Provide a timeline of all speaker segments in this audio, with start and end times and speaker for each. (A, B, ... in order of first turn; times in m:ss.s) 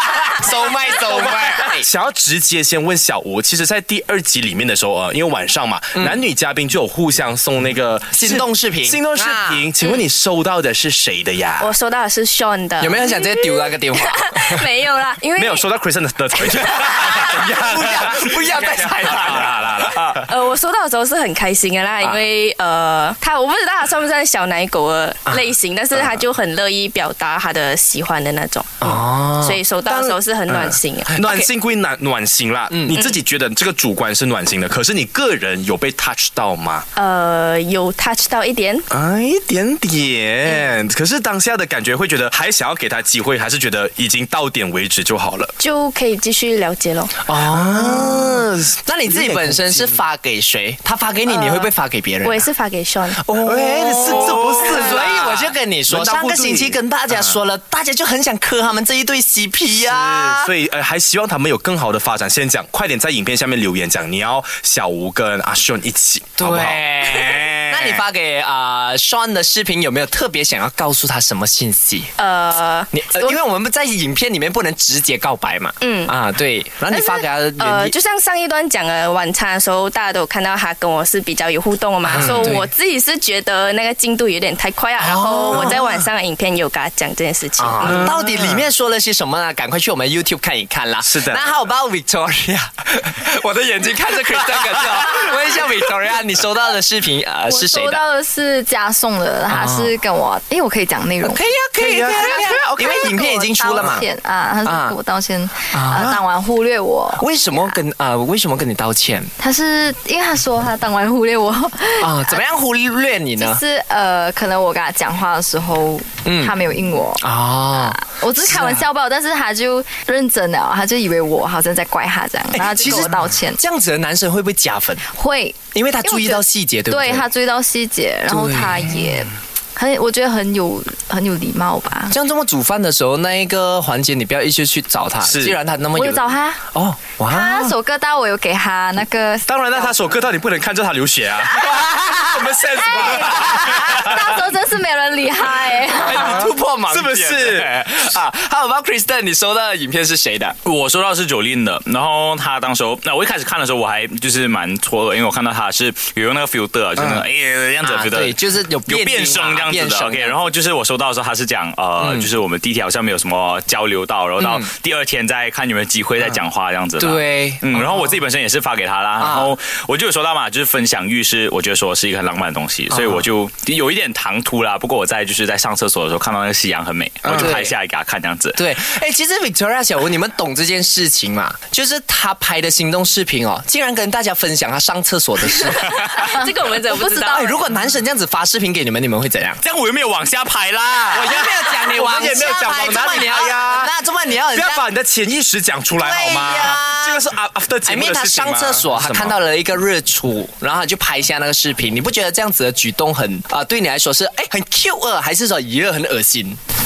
0:00.3-0:01.8 A
0:00.4-0:11.7 B
0:05.9-0:06.2 A
0:08.1-0:09.6 A
0:11.6-0:15.7 C
0:12.8-0:14.6 A
0:15.4-0:20.3 B
0:16.3-0:17.5 C
0:17.0-0:20.1 A
0:20.2-0:31.5 C
0:28.8-0:29.6 A
0:29.8-0:36.8 B
0:32.7-0:33.0 A
0:32.9-0:33.2 C
0:37.0-0:38.8 C
0:38.9-0:45.5 B
0:45.6-0:47.2 C
0:47.3-0:52.5 A
0:47.5-0:50.0 B
0:52.2-0:53.2 C
0:53.2-1:00.5 A
0:53.4-0:57.2 B
0:59.8-1:08.0 B
1:06.4-1:12.1 A
1:12.2-1:13.4 C
1:12.9-1:17.9 A
1:15.8-1:16.1 C
1:16.9-1:28.1 C
1:22.1-1:22.6 A
1:22.1-1:22.6 B
1:25.0-1:25.8 A
1:25.5-1:25.9 B
1:27.6-1:38.0 A
1:27.8-1:28.6 B
1:31.0-1:31.4 B
1:37.5-1:41.4 D
1:39.5-1:39.9 A
1:41.2-1:44.1 A
1:41.8-1:43.0 B
1:42.1-1:47.7 D
1:44.6-1:45.0 A
1:45.7-1:46.2 A
1:47.2-1:49.3 A
1:49.4-1:52.4 D
1:52.0-1:53.6 A
1:53.4-1:57.2 D
1:56.2-1:56.5 A
1:57.2-1:58.8 A
1:57.9-2:03.6 D
2:02.5-2:05.0 A
2:05.1-2:12.1 D
2:05.7-2:07.3 A
2:08.3-2:09.1 A
2:12.1-2:17.7 A
2:15.2-2:15.6 B
2:15.9-2:16.6 D
2:17.3-2:20.0 D
2:19.5-2:24.4 B
2:21.9-2:22.2 A
2:22.7-2:26.5 D
2:23.5-2:23.9 A
2:25.9-2:30.5 A
2:26.1-2:27.7 B
2:30.6-2:58.6 E
2:37.8-2:40.4 A
2:42.0-2:42.3 A
2:44.4-2:44.7 A
2:47.0-2:48.1 A
2:49.2-2:49.5 A
2:52.9-2:53.3 A
2:57.2-2:57.6 B
2:57.3-2:57.7 A
2:58.6-3:05.8 A
3:05.6-3:07.6 C
3:06.2-3:07.4 D
3:07.3-3:09.6 A
3:09.6-3:11.4 E
3:11.1-3:14.8 A
3:11.2-3:13.9 B
3:14.5-3:19.4 B
3:15.9-3:17.2 A
3:17.8-3:26.6 A